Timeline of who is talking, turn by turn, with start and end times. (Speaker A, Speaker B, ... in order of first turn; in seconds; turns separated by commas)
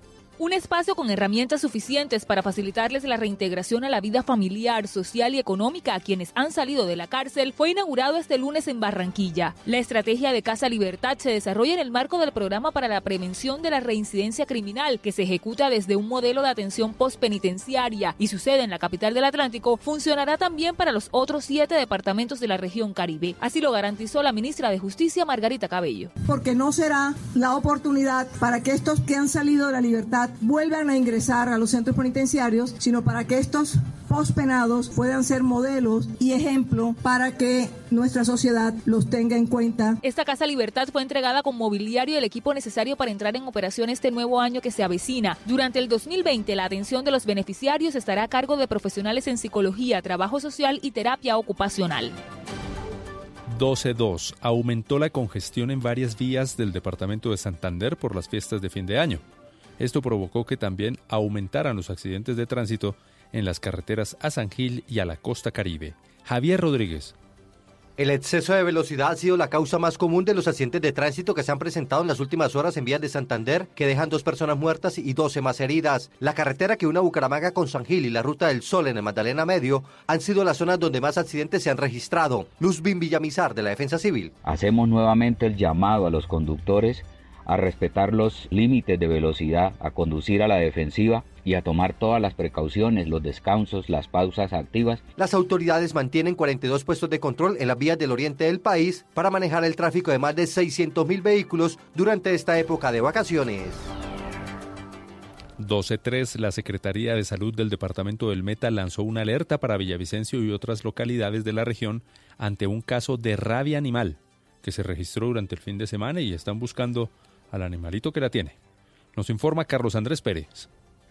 Speaker A: 0.4-26.1, Speaker B: 26.2-40.0, Speaker A: 40.0-52.1, Speaker C: 53.5-59.2, Speaker C: 59.8-67.1, Speaker D: 68.0-84.3, Speaker E: 84.4-95.0, Speaker D: 95.2-103.8, Speaker C: 105.6-118.6, Speaker C: 119.2-120.7